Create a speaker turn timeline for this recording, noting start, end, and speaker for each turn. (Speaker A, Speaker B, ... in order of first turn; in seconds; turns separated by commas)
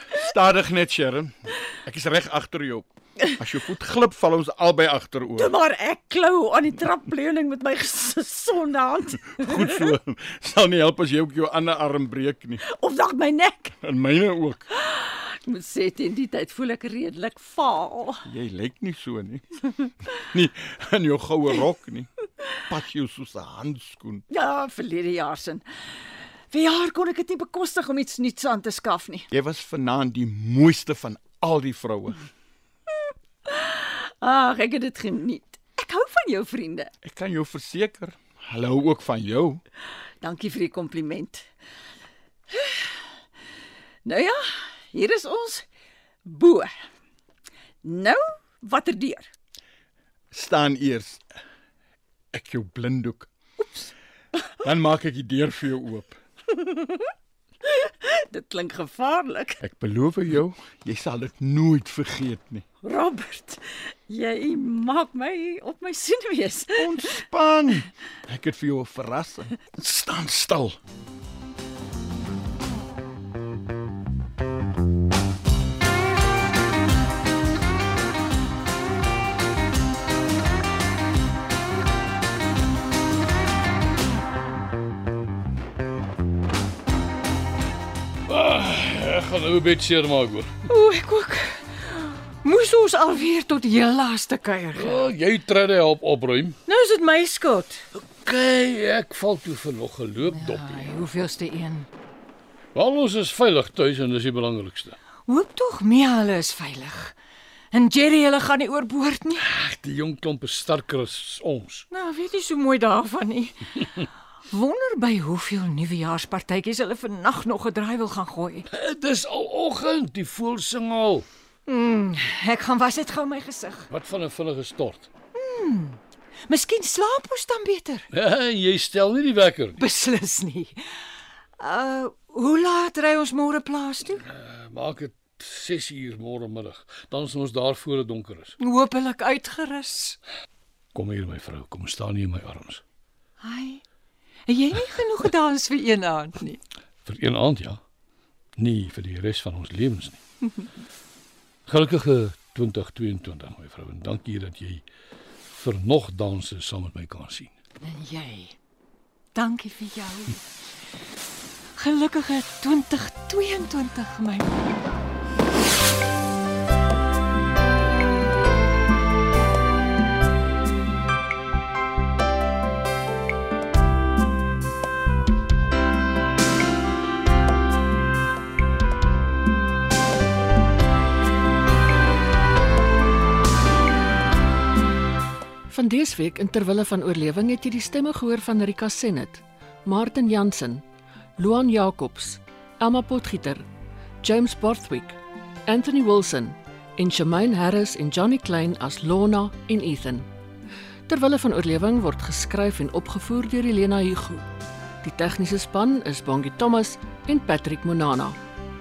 Speaker A: 0.1-5.5, Speaker B: 5.4-9.9, Speaker A: 9.4-12.6, Speaker B: 12.6-13.8, Speaker A: 13.8-14.7, Speaker B: 14.7-18.2, Speaker A: 18.2-22.1, Speaker A: 22.7-24.2, Speaker B: 24.3-25.8, Speaker B: 26.5-29.3, Speaker A: 29.3-32.2, Speaker B: 33.5-36.9, Speaker A: 37.0-39.6, Speaker B: 40.2-41.5, Speaker B: 42.5-43.0, Speaker B: 44.0-45.6, Speaker B: 46.2-46.7, Speaker B: 47.8-49.3, Speaker A: 50.3-51.2, Speaker A: 52.3-53.3, Speaker B: 53.6-53.9, Speaker A: 54.6-56.2, Speaker B: 56.5-57.1, Speaker B: 57.6-59.6, Speaker A: 59.6-62.6, Speaker B: 62.8-67.2, Speaker A: 66.7-70.8, Speaker C: 88.3-90.5, Speaker D: 90.7-95.1, Speaker C: 94.7-96.6, Speaker D: 96.7-97.8, Speaker C: 98.0-100.9, Speaker D: 100.3-101.9, Speaker C: 102.7-105.0, Speaker D: 105.3-107.2, Speaker D: 107.7-109.5, Speaker C: 109.4-111.8, Speaker D: 111.9-118.7, Speaker C: 118.7-121.3, Speaker D: 121.7-123.9, Speaker C: 123.9-125.1, Speaker D: 125.3-128.1, Speaker C: 128.1-129.8, Speaker D: 129.8-130.8, Speaker D: 131.6-134.2, Speaker C: 134.2-138.5, Speaker D: 138.6-140.2, Speaker C: 140.9-142.8, Speaker D: 143.4-143.8, Speaker D: 144.5-146.6, Speaker C: 147.1-147.8, Speaker C: 148.6-150.2, Speaker C: 151.7-154.8, Speaker C: 155.5-157.5, Speaker D: 157.8-158.6, Speaker D: 159.3-160.4, Speaker D: 161.8-164.9, Speaker E: 185.7-190.8, Speaker E: 191.4-193.6, Speaker E: 194.2-200.3, Speaker E: 201.1-204.5, Speaker E: 205.0-208.4